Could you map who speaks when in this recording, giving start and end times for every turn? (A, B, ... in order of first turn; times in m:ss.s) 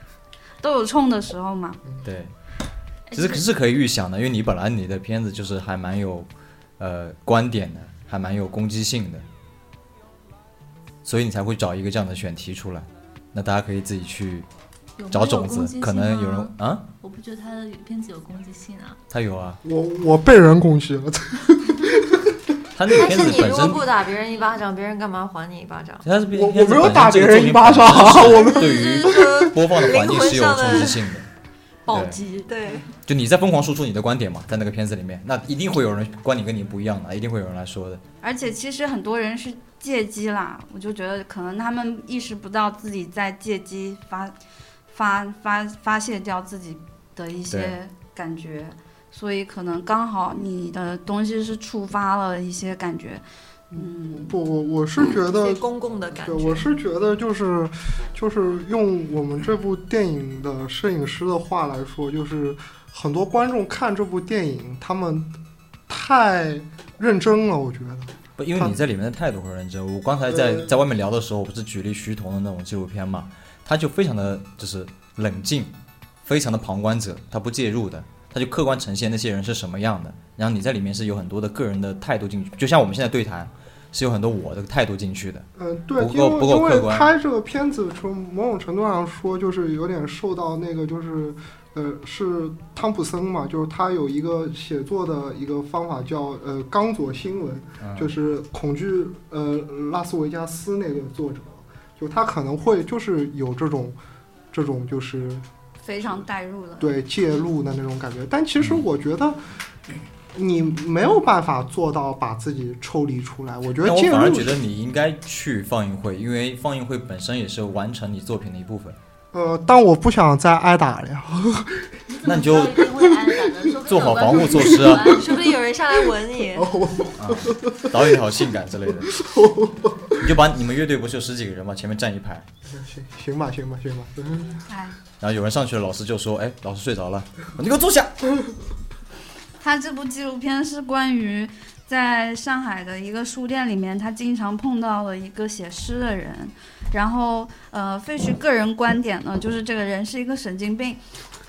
0:00.6-0:01.8 A
0:02.0-0:02.3 B
0:03.1-0:03.4 C
0:03.1-0:09.2 B
0:11.0-0:14.5 B
0:15.0-0:19.0 C
0:15.1-0:16.8 B
0:19.1-0:19.6 B
0:19.6-0:22.4 D
0:22.7-0:23.9 B
0:22.9-0:23.3 D
0:22.9-0:26.1 E
0:26.0-0:31.2 B
0:26.3-0:29.7 D
0:28.0-0:31.0 E
0:31.9-0:32.5 A
0:31.9-0:32.2 B
0:32.4-0:32.9 E
0:33.0-0:38.0 B
0:38.2-0:44.3 A
0:44.9-0:53.2 A
0:47.5-0:47.7 B
0:53.7-1:05.3 D
0:53.7-0:54.3 A
0:55.2-0:56.7 E
1:05.9-1:08.8 D
1:08.4-1:15.7 B
1:10.3-1:10.7 D
1:16.2-1:25.4 B
1:25.6-1:44.0 D
1:26.0-1:27.1 B
1:37.8-1:38.1 B
1:44.5-1:45.4 D
1:45.8-1:46.9 A
1:46.8-1:49.4 D
1:50.3-1:54.6 D
1:53.8-1:59.0 B
1:59.3-2:01.9 D
2:02.1-2:05.5 C
2:02.2-2:02.8 B
2:02.8-2:03.4 D
2:03.8-2:05.2 B
2:04.3-2:05.4 D
2:05.1-2:06.7 E
2:06.5-2:10.4 D
2:07.2-2:09.1 B
2:10.2-2:12.4 B
2:12.7-2:14.6 D
2:14.7-2:15.0 A
2:15.2-2:18.1 B
2:19.6-2:31.0 A